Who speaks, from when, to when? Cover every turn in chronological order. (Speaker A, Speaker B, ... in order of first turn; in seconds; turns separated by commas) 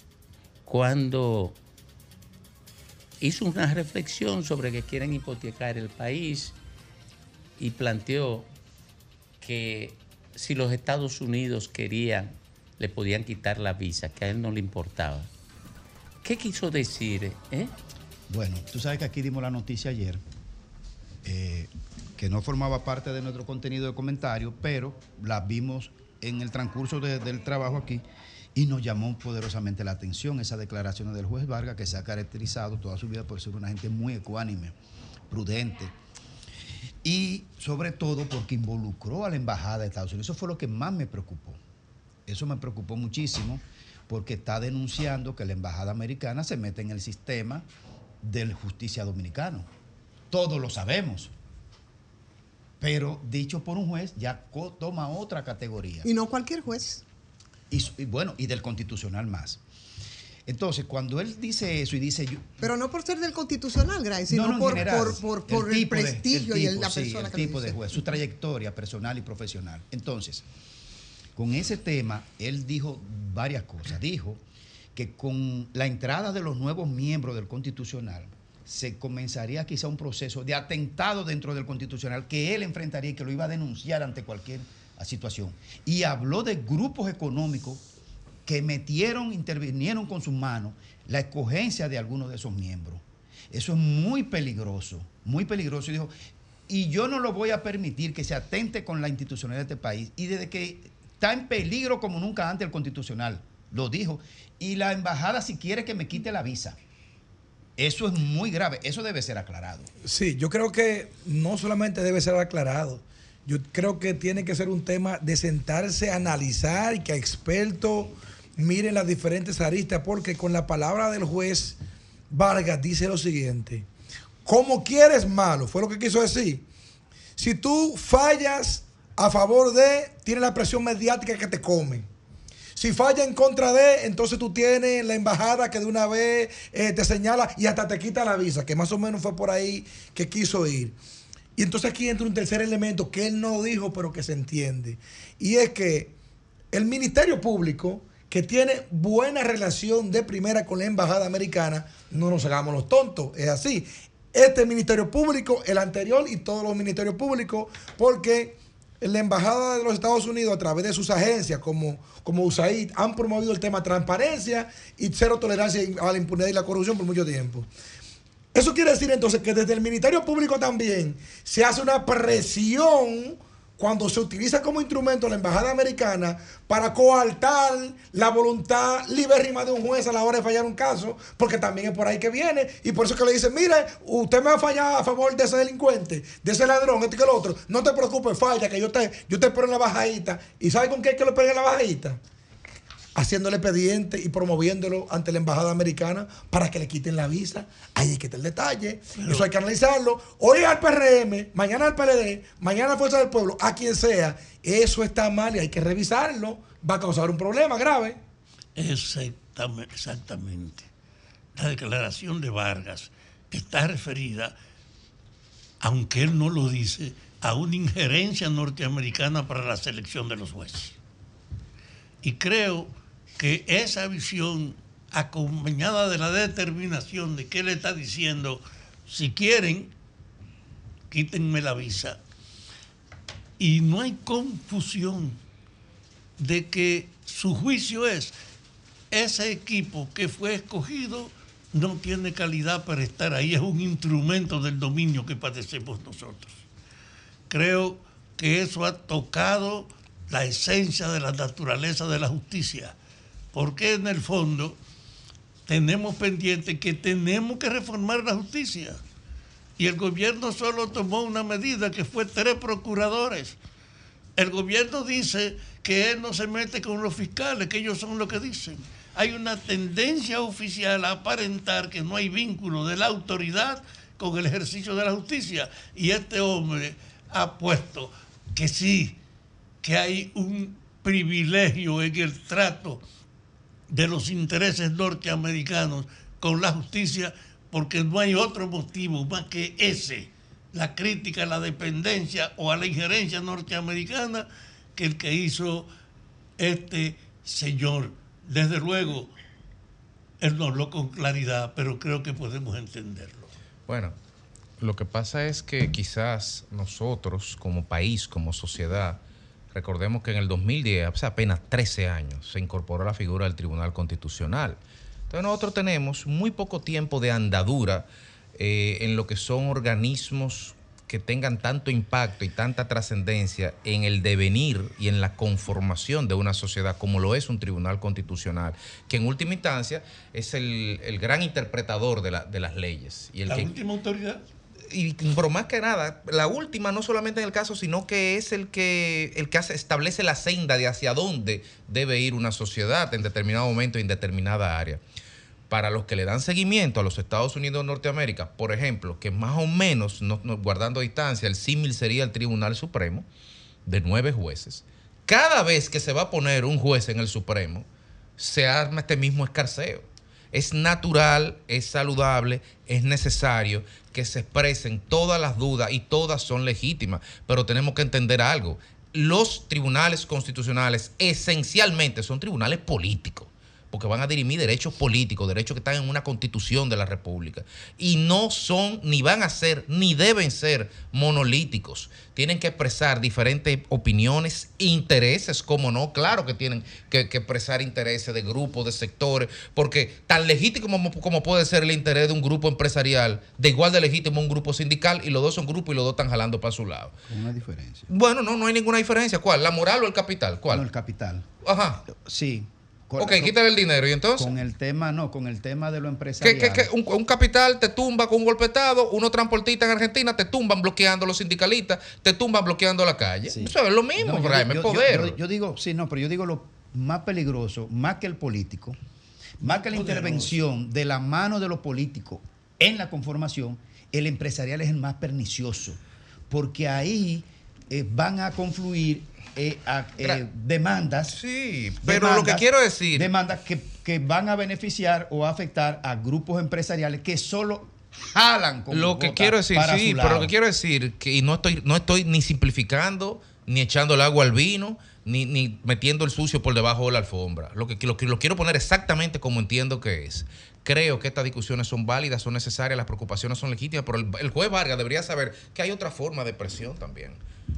Speaker A: 0.7-1.6, Speaker A: 3.2-6.5, Speaker A: 7.6-8.5, Speaker A: 9.4-15.3, Speaker A: 16.2-17.7, Speaker B: 18.3-20.2, Speaker B: 21.2-28.0, Speaker B: 28.6-34.8, Speaker B: 35.3-35.9, Speaker B: 37.0-41.6, Speaker B: 42.3-47.7, Speaker B: 48.2-49.7, Speaker B: 50.3-51.3, Speaker B: 52.8-56.1, Speaker C: 56.0-57.0, Speaker B: 57.7-59.6, Speaker B: 60.5-62.5, Speaker C: 62.6-67.8, Speaker B: 64.3-70.5, Speaker B: 71.4-74.4, Speaker B: 75.0-87.8, Speaker B: 88.5-96.1, Speaker B: 96.7-106.8, Speaker B: 107.8-109.9, Speaker D: 110.0-121.8, Speaker D: 122.3-123.9, Speaker D: 124.5-126.7, Speaker D: 127.4-132.1, Speaker D: 132.8-141.0, Speaker D: 141.6-146.1, Speaker D: 146.7-167.7, Speaker D: 168.5-192.2, Speaker D: 193.2-208.2, Speaker E: 199.2-199.5, Speaker E: 208.8-210.9, Speaker E: 211.6-214.5, Speaker E: 215.8-221.0, Speaker E: 222.2-229.9, Speaker E: 231.1-232.2, Speaker E: 233.6-235.4, Speaker E: 236.4-238.3, Speaker E: 239.1-246.7, Speaker E: 247.5-253.0, Speaker E: 253.5-254.8, Speaker E: 255.7-259.0, Speaker E: 259.8-263.6, Speaker E: 264.4-279.2, Speaker E: 279.8-283.0, Speaker E: 283.9-295.9, Speaker E: 296.6-299.3, Speaker E: 300.4-303.5, Speaker F: 303.9-304.2, Speaker F: 304.8-309.2, Speaker F: 309.7-314.8, Speaker F: 315.3-333.7, Speaker E: 333.5-334.4, Speaker F: 334.9-345.0, Speaker F: 345.7-353.3, Speaker F: 353.9-357.9, Speaker F: 358.4-397.1, Speaker B: 397.3-398.1, Speaker F: 398.1-400.9, Speaker B: 400.7-401.4, Speaker F: 401.6-402.0, Speaker B: 402.1-403.6, Speaker F: 403.2-404.6, Speaker B: 404.4-406.9, Speaker F: 406.4-415.4, Speaker B: 413.5-419.0, Speaker B: 419.6-426.0, Speaker F: 419.7-420.6, Speaker B: 426.5-431.4, Speaker F: 431.3-433.3, Speaker B: 432.0-440.5, Speaker F: 438.9-457.4